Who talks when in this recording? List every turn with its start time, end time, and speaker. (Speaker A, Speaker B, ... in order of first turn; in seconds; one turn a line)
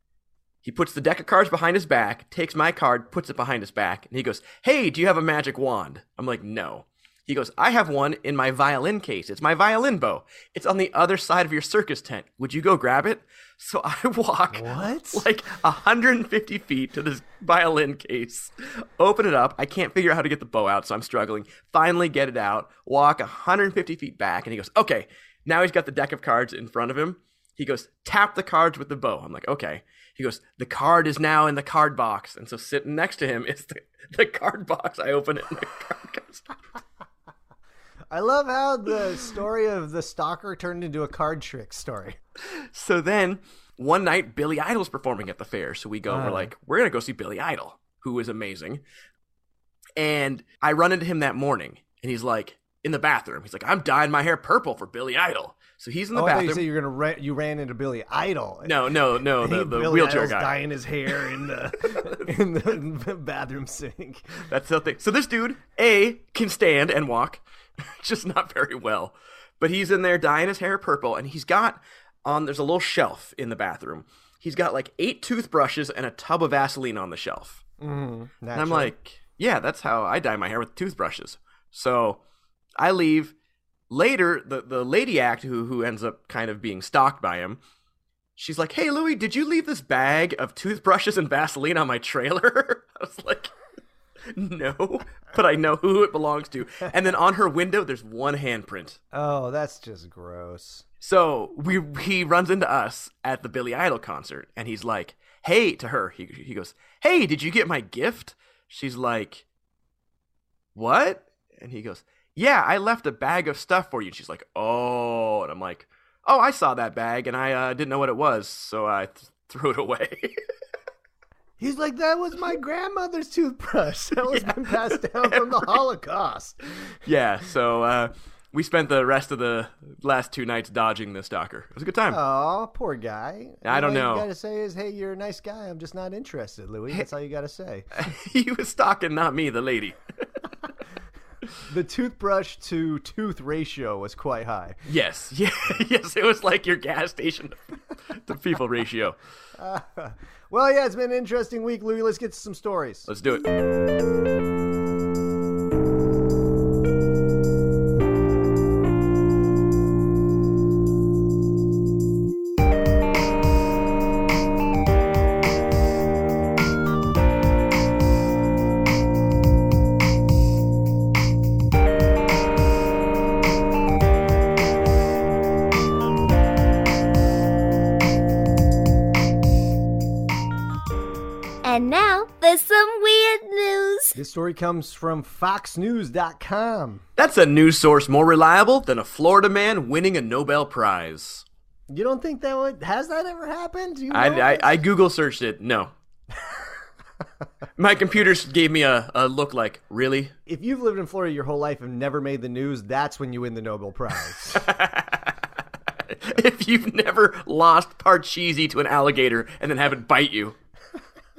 Speaker A: 0.6-36.5
Speaker B: 14.5-15.2
Speaker B: 38.1-42.2
Speaker A: 42.4-48.8
Speaker B: 46.1-46.5
Speaker A: 50.0-56.6
Speaker B: 56.1-64.4
Speaker A: 58.6-62.3
Speaker A: 64.5-77.6
Speaker B: 77.8-78.9
Speaker A: 78.5-82.2
Speaker A: 82.8-83.3
Speaker A: 83.9-87.6
Speaker A: 88.3-93.5
Speaker A: 94.3-99.0
Speaker B: 99.1-100.8
Speaker A: 101.0-109.4
Speaker A: 110.7-120.3
Speaker B: 121.6-126.6
Speaker A: 124.3-125.8
Speaker A: 127.0-132.2
Speaker B: 132.1-137.8
Speaker A: 133.6-134.3
Speaker A: 137.9-140.0
Speaker B: 141.6-144.8
Speaker A: 144.9-147.6
Speaker A: 148.1-149.2
Speaker B: 149.6-153.1
Speaker A: 153.1-153.5
Speaker C: 181.6-184.2
Speaker B: 184.1-187.0
Speaker A: 187.2-191.4
Speaker B: 191.9-194.7
Speaker A: 194.1-195.9
Speaker A: 197.8-200.3
Speaker B: 200.4-204.7
Speaker A: 204.4-205.4
Speaker A: 205.9-210.5